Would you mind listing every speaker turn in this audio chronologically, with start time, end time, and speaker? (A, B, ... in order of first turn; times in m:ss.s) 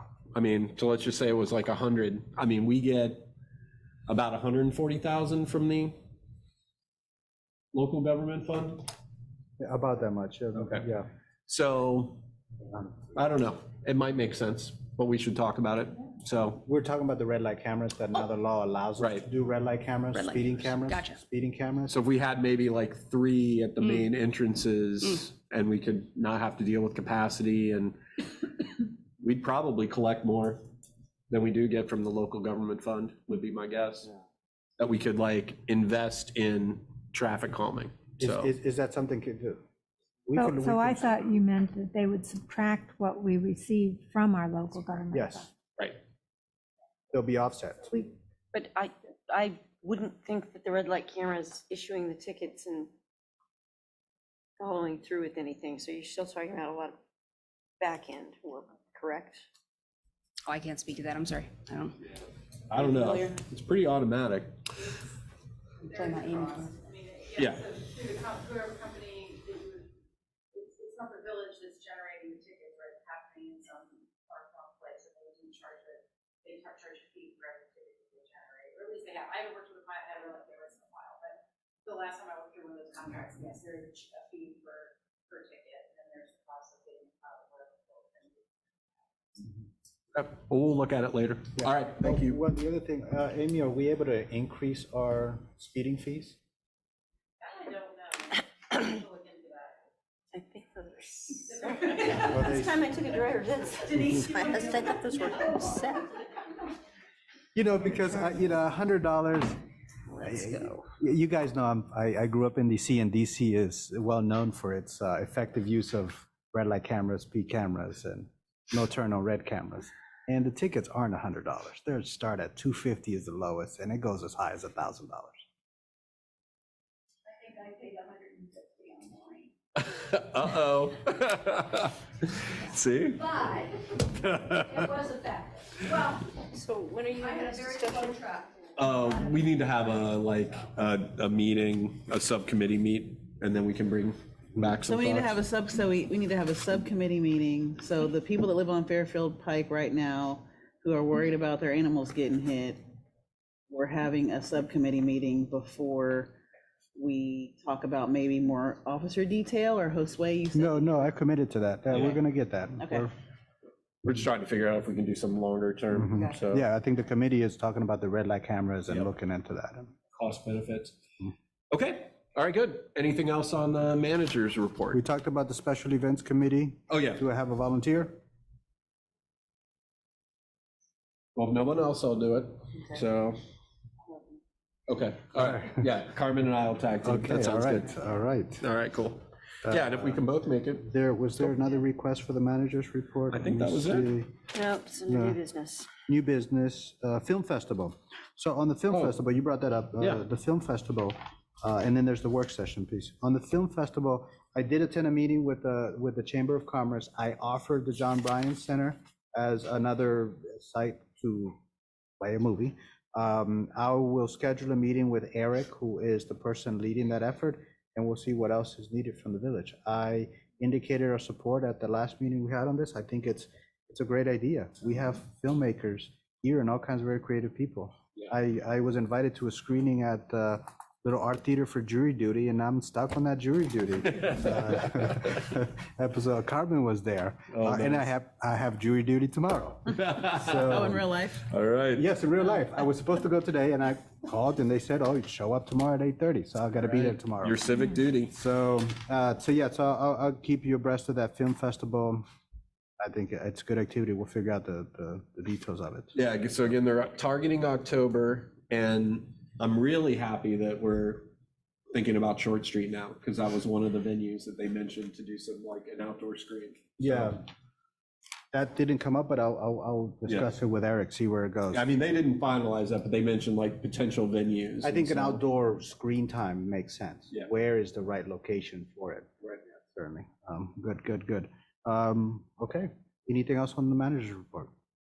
0:00.3-0:03.3 A
0:04.1-0:06.0 A
0:07.7-0:08.8 A
0:09.6-0:11.1 B
0:10.6-0:10.8 A
0:11.5-0:12.2 A
0:13.2-0:16.6 A
0:16.6-0:22.0 B
0:19.0-0:19.2 A
0:20.1-0:21.2 C
0:21.9-0:28.0 A
0:23.8-0:24.1 C
0:29.2-0:30.6 A
0:31.3-0:34.1 A
0:34.8-0:38.5 A
0:38.2-0:39.6 B
0:40.3-0:41.2 B
0:40.4-0:45.5 D
0:45.1-0:45.5 B
0:47.1-0:48.2 B
0:48.5-0:52.9 E
0:54.6-0:57.0 E
0:57.8-0:59.4 E
1:00.5-1:02.0 C
1:02.7-1:04.6 A
1:02.7-1:03.4 C
1:05.8-1:06.7 C
1:05.8-1:09.9 F
1:07.4-1:07.7 A
1:10.5-1:28.4 F
1:30.1-1:32.4 A
1:31.6-1:36.4 B
1:37.4-1:39.8 F
1:40.3-1:46.2 E
1:41.5-1:43.2 F
1:42.0-1:42.9 B
1:43.8-1:46.0 F
1:47.6-1:49.6 B
1:50.1-1:50.8 E
1:50.2-2:05.4 B
2:07.3-2:09.5 F
2:09.8-2:13.5 A
2:14.1-2:14.9 A
2:15.9-2:16.3 F
2:16.5-2:18.4 E
2:17.2-2:18.4 F
2:18.8-2:25.4 A
2:24.8-2:32.8 G
2:33.7-2:36.4 G
2:37.0-2:41.1 G
2:40.5-2:43.1 B
2:41.9-2:42.2 A
2:42.8-2:43.1 G
2:44.0-2:46.7 A
2:45.9-2:49.9 B
2:50.2-2:51.0 A
2:51.7-2:55.0 A
2:54.9-2:58.2 B
2:56.9-2:57.2 A
3:01.4-3:03.4 A
3:04.9-3:07.9 A
3:07.0-3:08.6 B
3:08.6-3:10.9 A
3:09.7-3:10.2 B
3:10.8-3:14.3 B
3:13.3-3:14.1 A
3:14.5-3:15.9 E
3:15.1-3:15.4 B
3:16.0-3:31.6 B
3:32.2-4:01.0 B
3:57.5-3:58.1 A
4:00.5-4:01.4 G
4:01.4-4:02.1 A
4:01.9-4:07.6 B
4:06.8-4:08.4 A
4:08.3-4:12.2 B
4:13.0-4:16.1 B
4:16.1-4:21.3 A
4:21.9-4:27.4 A
4:27.0-4:27.4 B
4:28.5-4:31.9 B
4:31.7-4:35.4 A
4:34.8-4:39.3 B
4:39.9-4:44.7 B